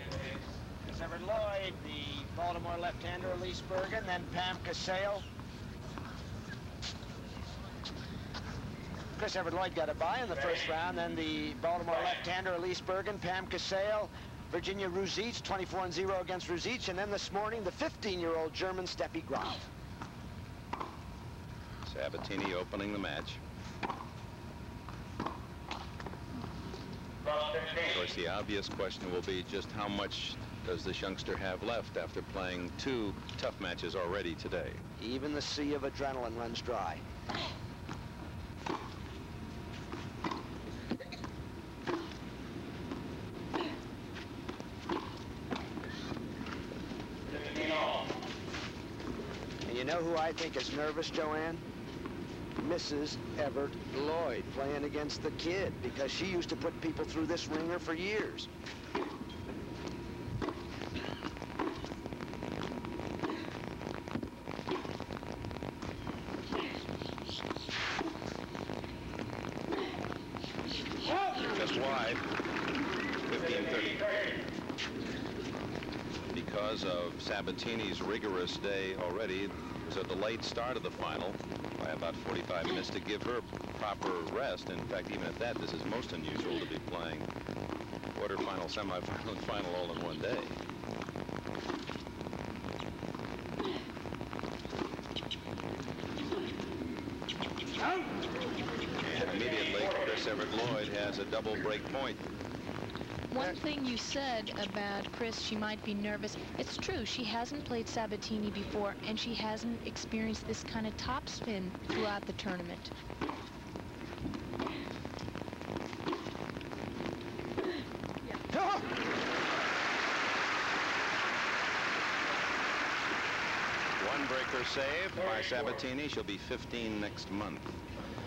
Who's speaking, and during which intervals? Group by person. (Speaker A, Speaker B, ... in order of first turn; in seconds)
Speaker A: 0.8-5.3, 9.2-19.7, 35.0-37.0, 49.6-51.6, 52.6-58.5
Speaker B: 21.9-23.4, 27.8-34.8, 71.5-72.2, 73.3-74.1, 76.3-87.3, 88.1-90.5, 99.0-102.2, 124.0-127.8
Speaker C: 103.3-112.9